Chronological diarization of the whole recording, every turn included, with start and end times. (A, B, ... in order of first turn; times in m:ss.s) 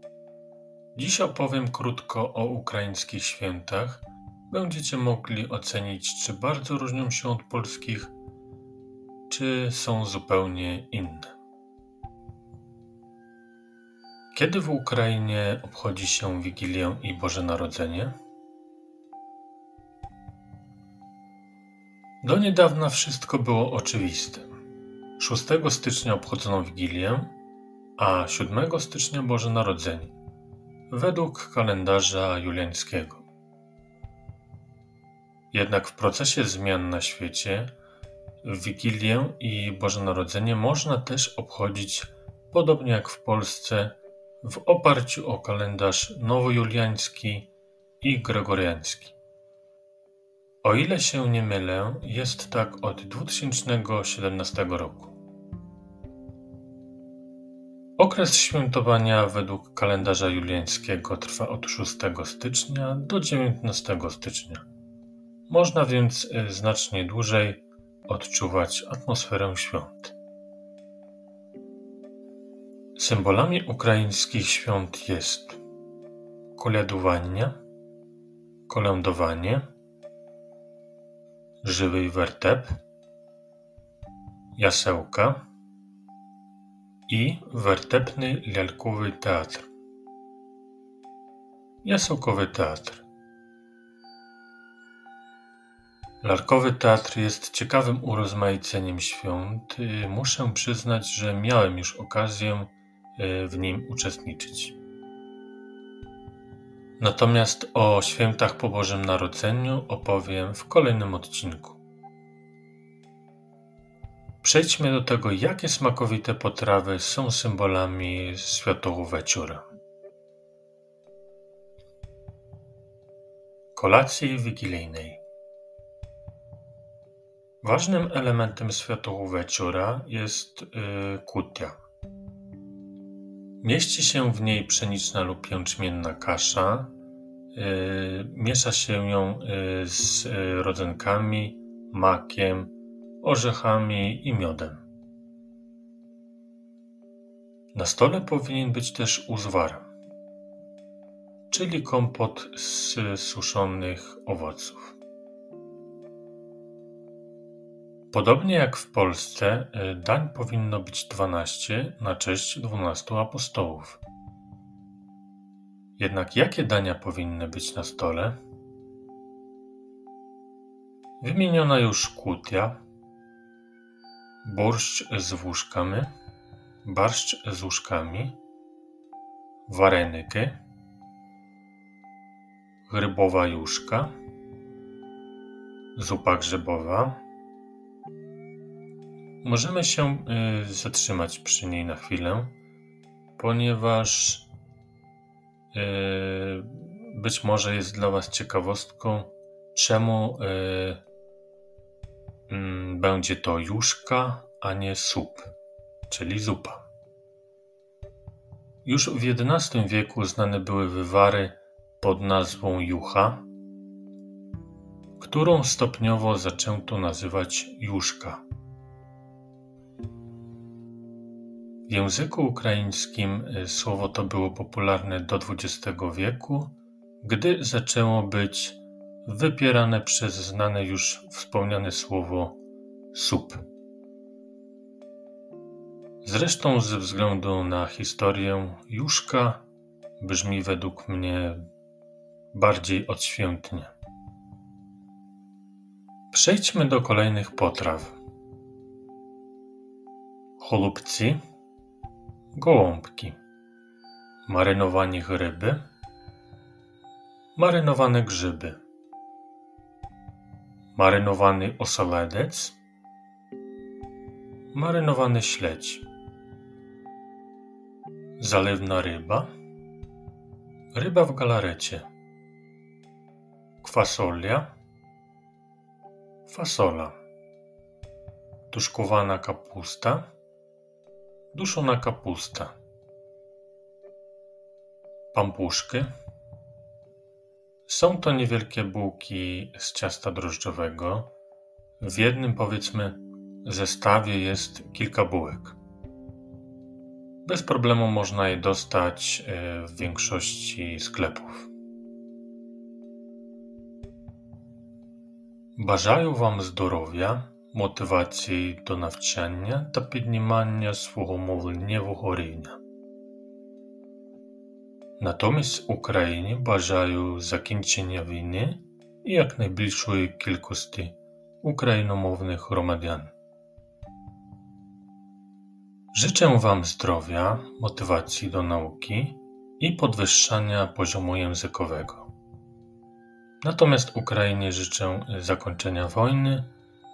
0:00.9-0:08.1 A
0:09.3-0:11.3 A
0:14.3-0:18.1 A
0:22.2-0:24.5 A
0:25.2-0:27.3 A
0:28.0-0:30.1 A
0:30.9-0:33.2 A
0:35.5-0:37.7 A
0:38.4-0:47.5 A
0:48.0-0:49.2 A
0:50.6-0:55.2 A
0:58.0-1:04.6 A
1:05.5-1:10.1 A
1:13.0-1:15.6 A
1:16.6-1:17.6 A
1:18.7-1:19.6 A
1:21.6-1:22.8 A
1:24.6-1:25.4 A
1:27.1-1:29.7 A
1:31.8-1:33.0 A
1:36.2-1:44.8 A
1:47.0-1:51.8 A
1:54.4-1:59.6 A
2:03.7-2:05.2 A
2:07.6-2:11.7 A
2:13.6-2:16.9 A
2:17.5-2:24.8 A
2:27.7-2:29.9 A
2:31.5-2:35.0 A
2:38.1-2:44.0 A
2:46.0-2:48.4 A
2:51.2-2:52.8 A
2:54.4-2:56.1 A
2:56.8-2:58.3 A
2:59.7-3:00.5 A
3:02.9-3:04.1 A
3:06.0-3:07.2 A
3:09.4-3:12.5 A
3:13.4-3:14.5 A
3:15.7-3:21.0 A
3:22.5-3:25.5 A
3:26.1-3:26.9 A
3:28.8-3:33.4 A
3:35.2-3:38.4 A
3:41.9-3:52.6 A
3:53.1-3:53.6 A
3:56.2-3:59.6 A
4:00.2-4:01.6 A
4:02.5-4:03.9 A
4:06.3-4:08.2 A
4:10.6-4:11.4 A
4:12.5-4:13.4 A
4:14.5-4:15.8 A
4:17.6-4:18.8 A
4:21.0-4:22.8 A
4:24.7-4:26.0 A
4:28.4-4:29.5 A
4:30.9-4:32.0 A
4:33.8-4:34.7 A
4:36.4-4:37.1 A
4:38.7-4:40.3 A
4:41.5-4:42.7 A
4:45.3-4:46.1 A
4:47.9-4:51.3 A
4:52.0-4:55.8 A
4:57.4-5:01.7 A
5:05.8-5:12.8 A
5:15.2-5:23.3 A
5:26.1-5:32.3 A
5:33.6-5:36.7 A